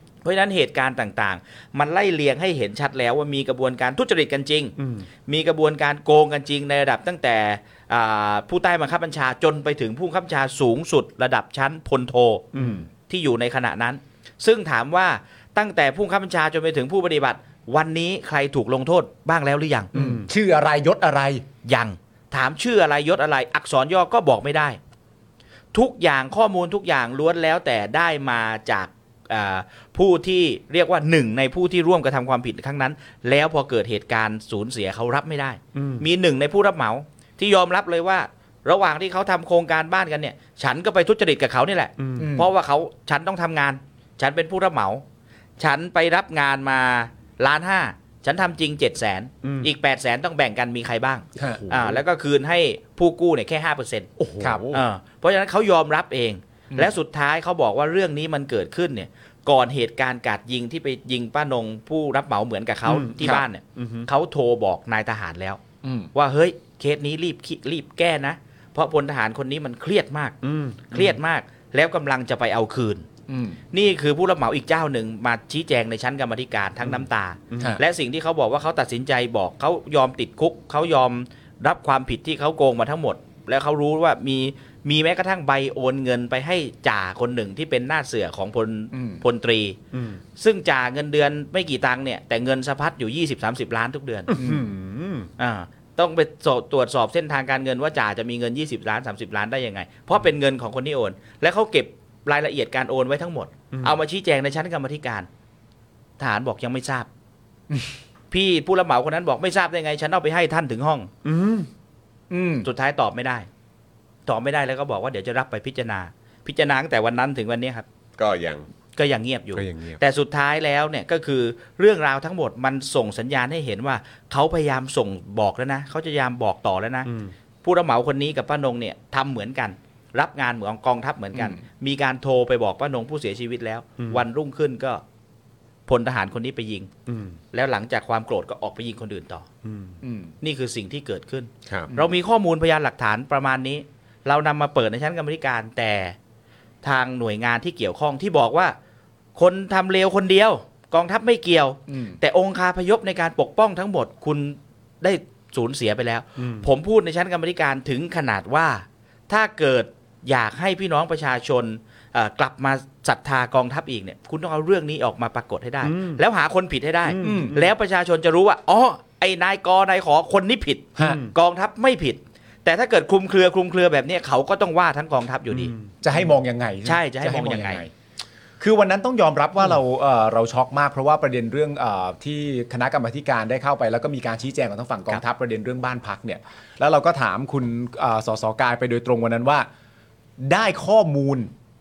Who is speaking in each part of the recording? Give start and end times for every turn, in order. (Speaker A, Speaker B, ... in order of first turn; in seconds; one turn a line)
Speaker A: 0.2-4.8
Speaker B: 4.8-5.1
Speaker A: 5.3-19.9
Speaker B: 12.5-12.8
Speaker C: 12.6-12.8
Speaker B: 19.9-20.2
Speaker C: 19.9-21.4
Speaker A: 21.6-24.8
Speaker A: 25.7-45.0
Speaker B: 35.8-36.1
Speaker B: 42.0-42.3
Speaker C: 42.2-42.5
Speaker A: 45.6-54.1
Speaker B: 49.4-49.7
Speaker C: 51.4-52.0
Speaker C: 54.2-54.7
Speaker B: 54.2-54.8
Speaker A: 54.7-65.6
Speaker B: 62.9-64.1
Speaker C: 63.2-63.5
Speaker C: 65.8-66.1
Speaker A: 66.1-70.4
Speaker B: 70.4-70.9
Speaker A: 70.9-73.1
Speaker C: 73.3-73.6
Speaker A: 73.7-89.8
Speaker C: 88.9-89.2
Speaker B: 89.9-90.2
Speaker A: 90.4-94.3
Speaker B: 94.3-95.3
Speaker C: 94.3-94.7
Speaker A: 95.4-105.3
Speaker A: 106.2-107.1
Speaker A: 108.3-111.1
Speaker B: 111.2-111.7
Speaker C: 112.3-112.7
Speaker A: 112.6-113.5
Speaker A: 114.3-117.8
Speaker B: 118.2-118.7
Speaker A: 119.0-127.1
Speaker B: 119.5-120.0
Speaker B: 127.1-127.3
Speaker A: 127.6-135.0
Speaker A: 135.9-136.9
Speaker B: 137.1-137.3
Speaker A: 137.5-139.5
Speaker B: 139.7-140.0
Speaker C: 140.0-140.3
Speaker A: 140.4-146.2
Speaker B: 141.7-141.9
Speaker A: 146.8-148.8
Speaker A: 149.4-176.2
Speaker C: 151.9-152.2
Speaker B: 156.4-156.7
Speaker B: 165.8-166.2
Speaker B: 167.1-167.7
Speaker C: 167.2-167.6
Speaker B: 171.0-171.3
Speaker B: 175.5-175.9
Speaker C: 176.0-177.9
Speaker A: 176.8-177.8
Speaker C: 178.6-189.7
Speaker C: 190.4-191.5